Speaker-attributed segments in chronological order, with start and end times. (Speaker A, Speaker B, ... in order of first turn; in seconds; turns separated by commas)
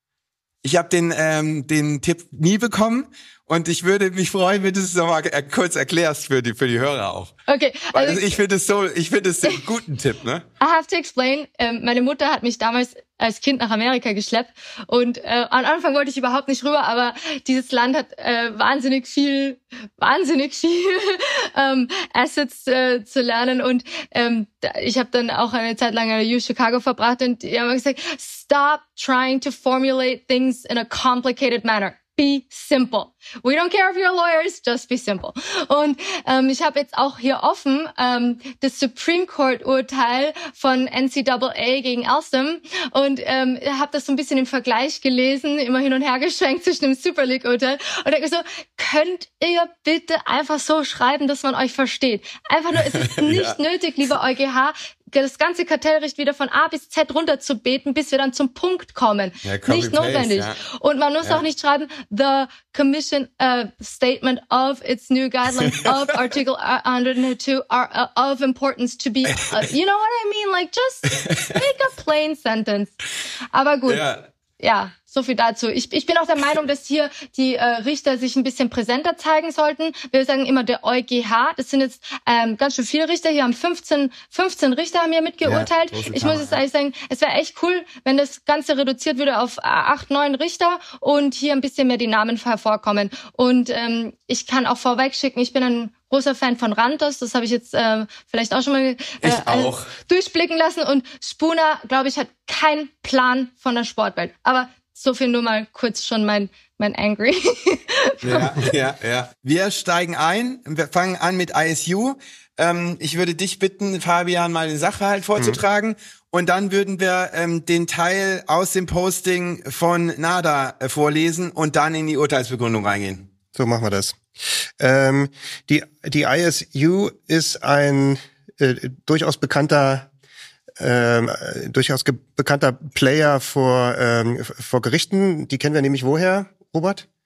Speaker A: 0.6-7.3, Speaker B: 7.5-8.4, Speaker A: 7.9-10.4, Speaker B: 10.6-72.9, Speaker A: 52.9-53.6, Speaker A: 59.4-60.6, Speaker A: 65.6-65.9, Speaker A: 71.2-71.5, Speaker B: 73.5-74.0, Speaker A: 73.9-74.2, Speaker B: 74.6-108.4, Speaker A: 85.4-86.6, Speaker A: 99.2-99.9, Speaker A: 108.2-123.3, Speaker C: 123.5-124.2, Speaker C: 124.8-130.1, Speaker C: 130.8-137.1